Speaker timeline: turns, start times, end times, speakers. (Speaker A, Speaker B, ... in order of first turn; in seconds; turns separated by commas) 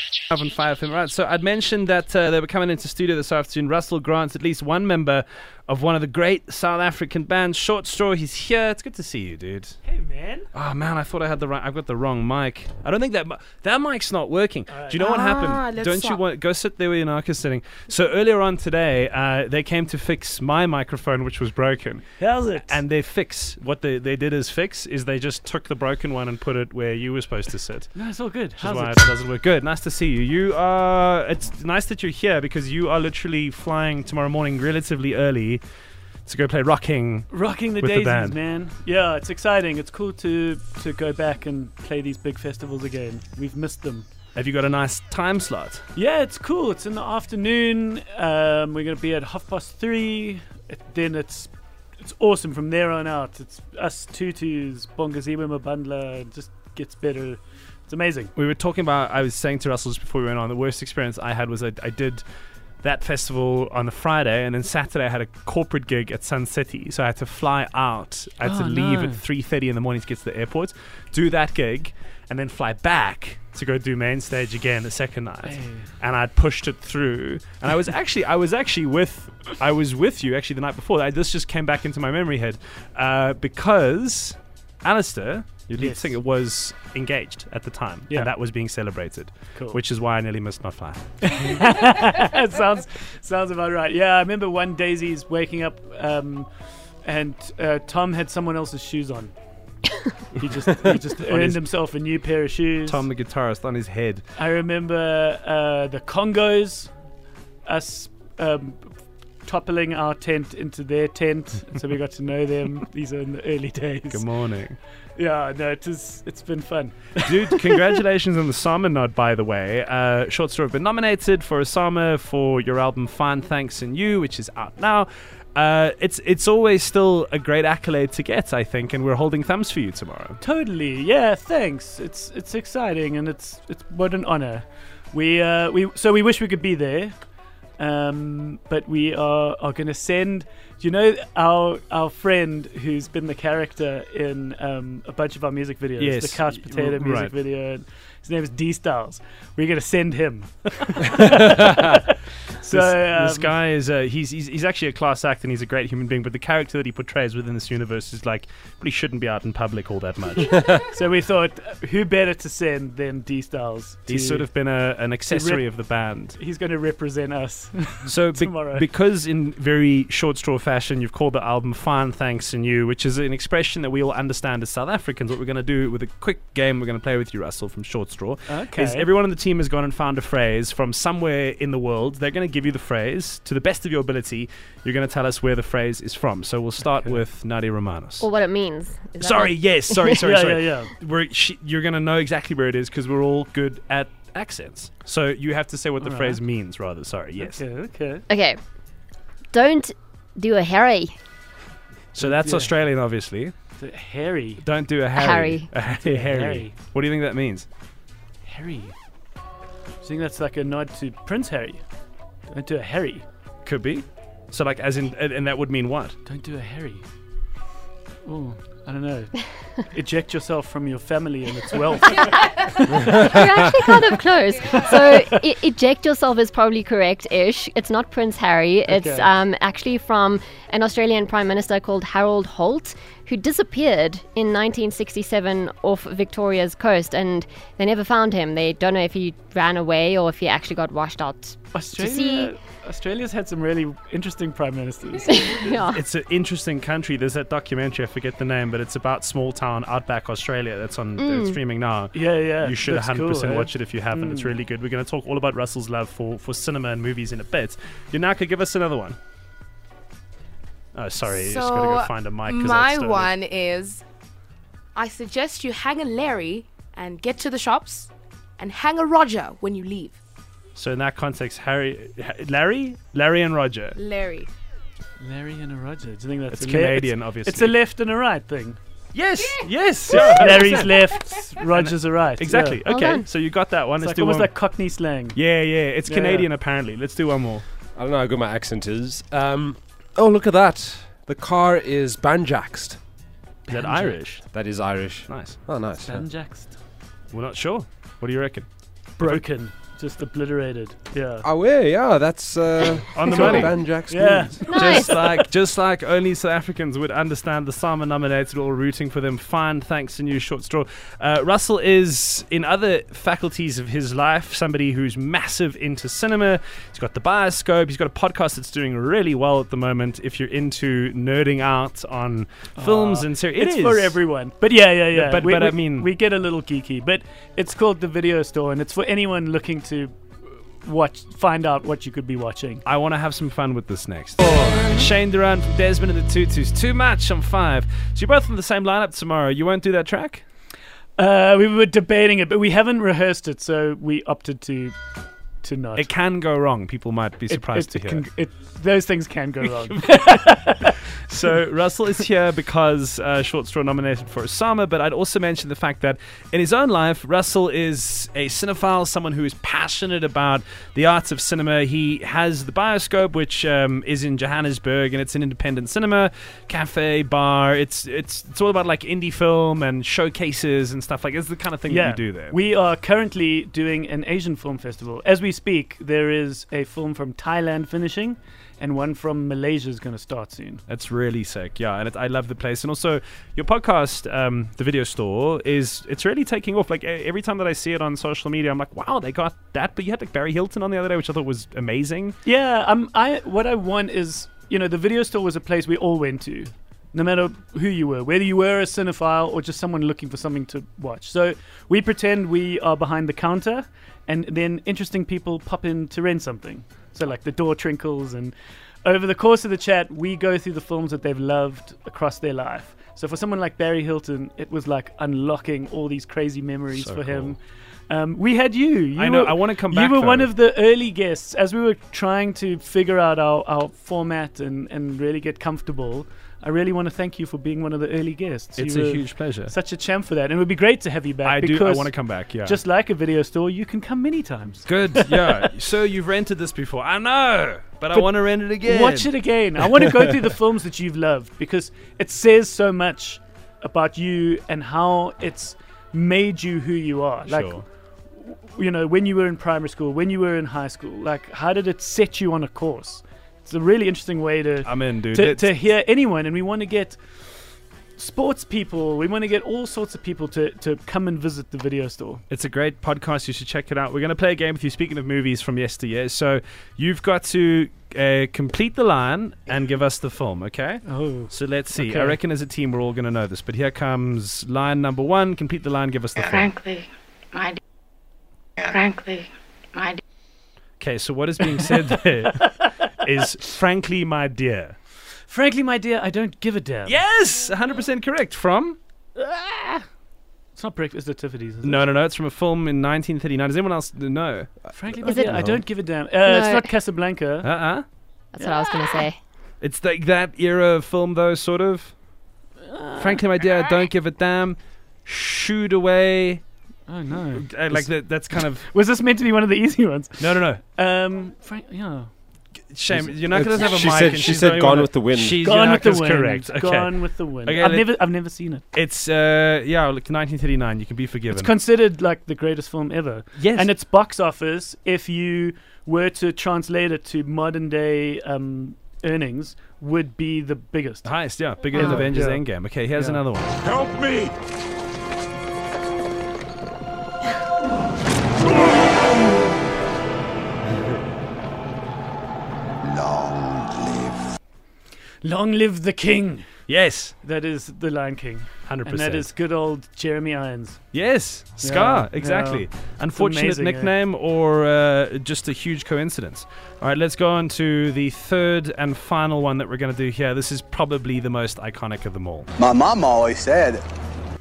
Speaker A: 0.3-9.8, Speaker B: 9.9-10.5, Speaker A: 10.5-22.0, Speaker B: 14.7-15.0, Speaker C: 14.9-16.2, Speaker B: 22.2-22.8, Speaker A: 22.6-27.9, Speaker B: 27.9-29.1, Speaker A: 28.6-35.6, Speaker A: 36.2-38.4, Speaker B: 37.3-44.0, Speaker A: 44.4-45.8, Speaker B: 46.0-58.3, Speaker A: 58.3-62.2, Speaker A: 62.8-91.5, Speaker B: 68.4-69.2, Speaker B: 75.5-75.9, Speaker B: 85.8-86.2, Speaker B: 91.2-96.5, Speaker B: 97.0-99.3, Speaker B: 100.3-103.0, Speaker A: 101.2-101.7, Speaker A: 102.8-104.2, Speaker B: 104.4-106.9, Speaker B: 107.7-108.9, Speaker B: 109.5-114.3, Speaker A: 114.1-114.8, Speaker B: 115.2-117.7, Speaker A: 117.2-130.4, Speaker B: 130.4-137.2, Speaker B: 137.8-153.6, Speaker A: 146.0-147.3, Speaker A: 152.6-160.6, Speaker B: 160.8-164.5, Speaker A: 164.1-166.4, Speaker B: 165.3-165.8, Speaker B: 166.4-168.9, Speaker A: 168.1-188.3, Speaker B: 178.5-179.1, Speaker B: 186.9-187.2, Speaker D: 188.2-190.3, Speaker A: 189.2-197.6, Speaker B: 190.3-190.9, Speaker B: 196.0-196.4, Speaker B: 197.4-198.3, Speaker D: 198.3-198.6, Speaker D: 199.5-201.2, Speaker A: 202.2-203.5, Speaker B: 202.2-202.7, Speaker B: 203.8-204.7, Speaker A: 204.6-207.7, Speaker D: 205.1-205.7, Speaker B: 205.8-206.8, Speaker B: 208.4-208.9, Speaker B: 210.0-211.8, Speaker B: 212.5-213.2, Speaker A: 213.7-216.2, Speaker B: 216.2-217.0, Speaker B: 218.2-219.3, Speaker B: 219.9-224.0, Speaker D: 223.0-242.6, Speaker B: 224.7-225.4, Speaker B: 228.9-229.3, Speaker B: 241.7-245.8, Speaker D: 245.2-246.0, Speaker A: 245.9-259.2, Speaker D: 251.2-251.6, Speaker B: 252.1-254.5, Speaker A: 260.9-263.4, Speaker C: 261.2-264.0, Speaker C: 264.9-270.2, Speaker A: 270.8-274.0, Speaker C: 273.9-274.5, Speaker B: 275.2-278.8, Speaker A: 276.5-277.7, Speaker A: 279.1-280.9, Speaker B: 280.1-282.8, Speaker A: 281.6-284.6, Speaker D: 282.9-283.3, Speaker B: 284.0-285.4, Speaker A: 285.3-287.6, Speaker B: 286.1-286.5, Speaker E: 287.9-293.0, Speaker B: 293.7-294.2, Speaker A: 293.7-294.4, Speaker E: 294.5-296.2, Speaker A: 295.3-295.6, Speaker B: 296.0-296.8, Speaker A: 297.3-298.7, Speaker B: 299.2-301.4, Speaker E: 301.4-304.6, Speaker A: 303.1-303.8, Speaker B: 303.2-303.5, Speaker B: 304.1-304.6, Speaker D: 304.7-305.4, Speaker A: 304.7-324.2, Speaker B: 322.8-330.2, Speaker A: 325.1-326.1, Speaker B: 330.8-332.8, Speaker A: 332.9-340.4, Speaker B: 334.4-335.1, Speaker B: 341.2-344.9, Speaker B: 345.6-346.1, Speaker A: 345.9-348.2, Speaker B: 347.5-351.0, Speaker A: 349.9-350.7, Speaker A: 351.3-372.6, Speaker B: 371.9-380.8, Speaker A: 380.9-392.4, Speaker B: 392.4-435.7, Speaker A: 416.9-417.6, Speaker A: 419.2-420.5, Speaker A: 428.8-429.7, Speaker A: 431.4-432.8, Speaker A: 434.9-439.3, Speaker B: 438.1-457.2, Speaker A: 447.4-447.9, Speaker A: 454.8-455.7, Speaker B: 458.2-462.4, Speaker A: 462.5-476.7, Speaker B: 471.1-472.4, Speaker F: 476.4-477.8, Speaker F: 478.8-480.2, Speaker A: 481.0-484.9, Speaker B: 485.5-487.2, Speaker A: 487.1-489.0, Speaker B: 489.4-490.0, Speaker B: 490.8-492.1, Speaker A: 491.8-494.9, Speaker B: 494.9-497.7, Speaker D: 495.2-495.6, Speaker E: 495.5-495.8, Speaker D: 496.4-496.9, Speaker A: 497.6-498.0, Speaker D: 498.5-499.4, Speaker B: 498.6-499.2, Speaker A: 499.8-502.1, Speaker B: 502.8-503.6, Speaker A: 503.2-506.6, Speaker B: 507.1-512.3, Speaker A: 507.6-508.9, Speaker A: 510.4-510.8, Speaker A: 512.9-518.2, Speaker E: 513.1-515.6, Speaker B: 515.6-518.9, Speaker A: 518.9-521.8, Speaker B: 521.5-531.4, Speaker A: 523.6-523.9, Speaker A: 531.2-533.9, Speaker B: 531.9-533.4, Speaker D: 532.0-532.2, Speaker G: 543.1-544.0, Speaker B: 545.4-546.6, Speaker A: 546.9-547.4, Speaker B: 547.4-551.0, Speaker A: 548.9-549.5, Speaker A: 551.1-562.7, Speaker B: 551.8-554.1, Speaker G: 562.8-564.0